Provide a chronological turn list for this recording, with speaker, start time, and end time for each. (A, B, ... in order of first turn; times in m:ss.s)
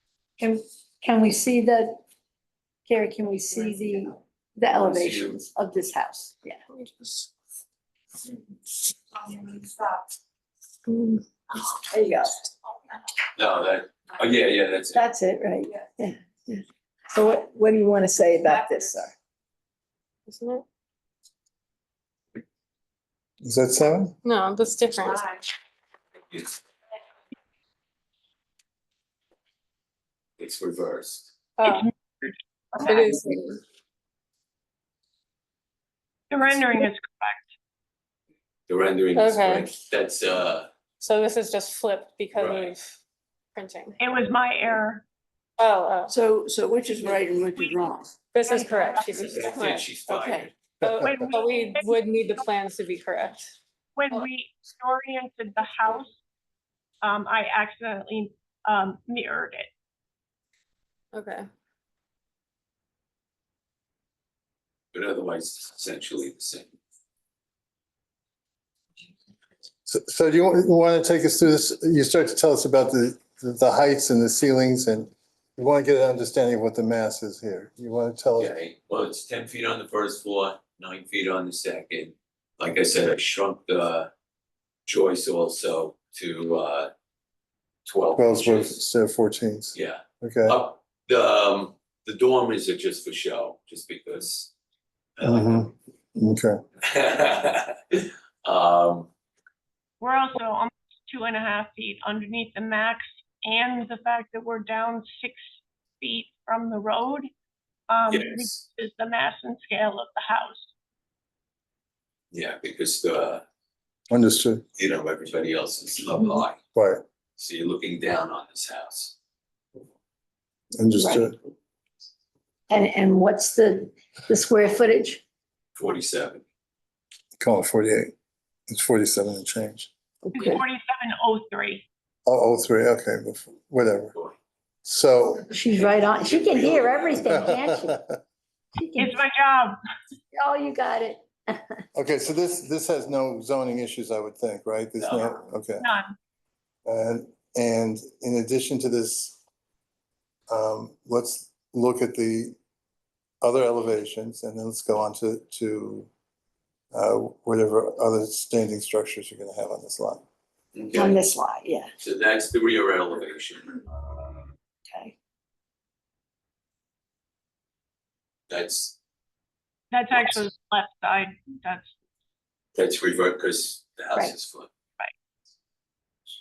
0:00.4-0:02.0 A
0:02.9-0:06.6 A
0:04.7-0:05.4 B
0:06.7-0:07.2 C
0:09.3-0:09.7 A
0:11.8-0:12.5 A
0:13.4-0:15.1 B
0:15.0-0:19.1 A
0:20.3-0:20.6 C
0:23.4-0:24.2 D
0:24.2-0:25.3 C
0:30.4-0:31.3 B
0:31.6-0:31.9 C
0:31.8-0:33.0 E
0:32.9-0:33.6 C
0:36.3-0:37.5 E
0:38.7-0:40.7 B
0:39.2-0:39.7 C
0:41.0-0:42.9 C
0:42.3-0:42.8 B
0:43.6-0:44.0 C
0:44.1-0:45.0 E
0:45.6-0:46.1 C
0:46.1-0:48.2 F
0:48.3-0:50.0 C
0:49.1-0:50.5 B
0:50.1-0:50.5 F
0:50.8-0:53.5 C
0:51.3-0:51.8 E
0:54.1-0:56.1 E
0:57.1-0:59.7 E
1:01.1-1:01.4 C
1:04.9-1:06.7 B
1:09.9-1:18.5 D
1:18.4-1:24.1 B
1:24.9-1:26.9 B
1:27.9-1:28.8 B
1:28.2-1:30.6 D
1:29.7-1:34.5 B
1:35.2-1:35.7 B
1:35.2-1:36.6 D
1:36.8-1:39.1 B
1:40.0-1:45.4 E
1:46.0-1:47.2 E
1:47.9-1:50.7 E
1:48.1-1:48.6 B
1:52.3-1:53.4 B
1:54.1-1:54.6 D
1:54.8-1:56.6 B
1:56.8-1:57.0 D
1:57.4-1:59.2 B
2:00.8-2:01.4 D
2:01.0-2:01.3 A
2:02.7-2:05.2 A
2:05.8-2:06.4 B
2:07.4-2:08.1 D
2:08.7-2:09.9 D
2:10.2-2:10.6 A
2:10.4-2:11.8 E
2:12.3-2:14.1 D
2:14.8-2:15.5 D
2:15.5-2:18.0 A
2:15.7-2:17.5 B
2:17.3-2:18.2 D
2:18.8-2:19.2 A
2:19.0-2:19.5 E
2:20.3-2:21.8 A
2:21.9-2:25.9 D
2:25.0-2:25.4 B
2:26.9-2:29.4 D
2:30.5-2:32.6 D
2:33.4-2:36.1 D
2:36.9-2:40.2 D
2:40.8-2:41.4 B
2:40.9-2:41.9 A
2:42.0-2:43.8 B
2:48.5-2:49.0 B
2:50.2-2:51.9 E
2:52.8-2:54.7 B